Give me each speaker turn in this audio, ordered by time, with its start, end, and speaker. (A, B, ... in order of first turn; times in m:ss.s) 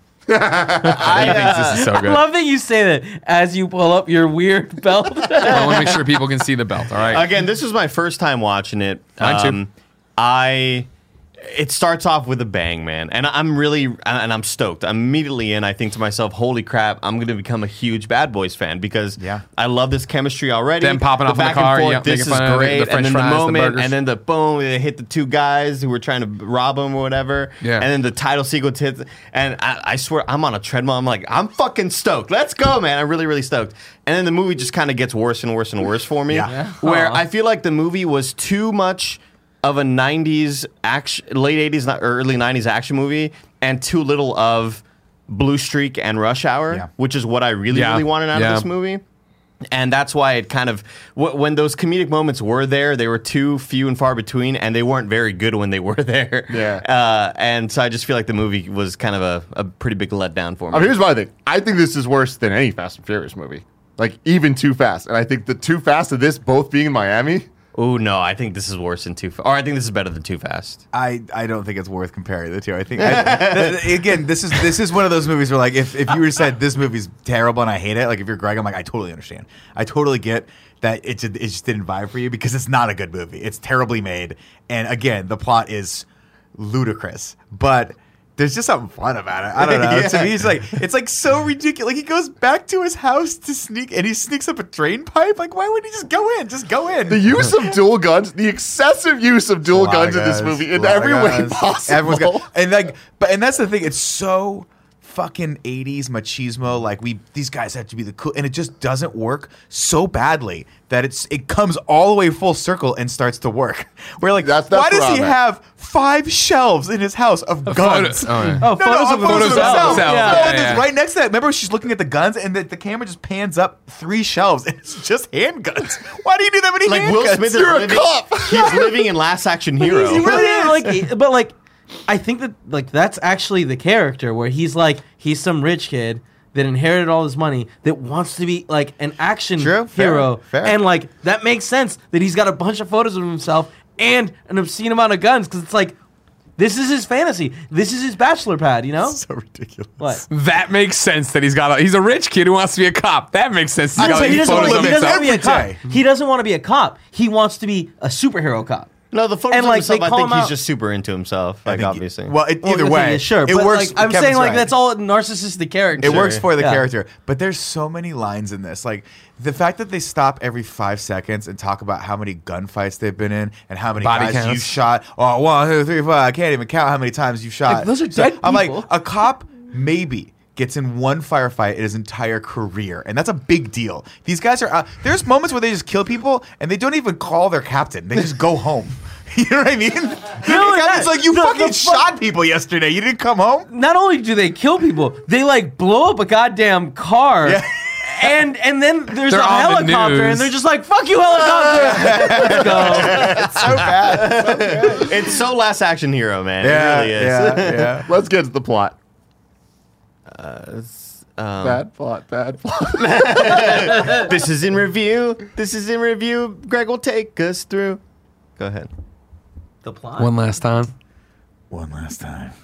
0:00.3-0:01.2 A
0:00.8-0:02.2 B
0:01.0-0:06.0 C
0:01.1-0:01.7 D
0:05.4-0:07.3 B
0:07.0-0:10.9 D
0:09.2-0:09.6 B
0:11.4-0:49.0 D
0:19.2-0:19.4 E
0:20.8-0:23.9 B
0:27.6-0:27.9 B
0:36.3-0:36.5 E
0:36.5-0:37.2 C
0:47.7-0:48.6 B
0:49.7-1:01.0 D
0:56.5-0:56.8 A
1:00.7-1:07.5 A
1:07.7-1:10.8 D
1:10.9-1:37.8 E
1:13.0-1:14.0 D
1:29.6-1:30.5 D
1:37.1-1:42.4 A
1:39.6-2:07.6 E
1:54.4-1:55.4 A
1:57.7-2:00.8 B
1:58.6-2:00.6 C
2:06.8-2:10.3 D
2:07.5-2:09.1 A
2:09.8-2:11.5 C
2:10.1-2:11.0 E
2:12.1-2:26.0 C
2:19.6-2:20.8 E
2:26.6-2:29.2 C
2:29.0-2:30.2 E
2:30.0-2:30.2 C
2:30.3-2:35.2 B
2:33.9-2:35.8 E
2:34.0-2:38.9 C
2:39.1-2:42.4 D
2:39.5-2:40.6 C
2:41.6-2:44.7 E
2:42.6-2:46.8 C
2:46.0-2:46.4 D
2:46.0-3:13.7 E
2:54.0-2:54.7 B
2:57.7-2:58.9 C
3:10.4-3:12.1 C
3:13.7-3:23.4 C
3:17.4-3:18.3 E
3:19.3-3:20.5 B
3:21.5-3:25.3 E
3:22.9-3:23.8 A
3:23.3-3:28.0 D
3:26.6-3:28.1 E
3:28.0-3:28.9 A
3:30.3-3:31.8 D
3:31.6-3:34.1 A
3:32.9-3:38.0 D
3:33.9-3:34.2 C
3:38.6-3:38.9 D
3:39.8-3:40.3 C
3:40.2-3:40.9 B
3:41.7-3:42.5 E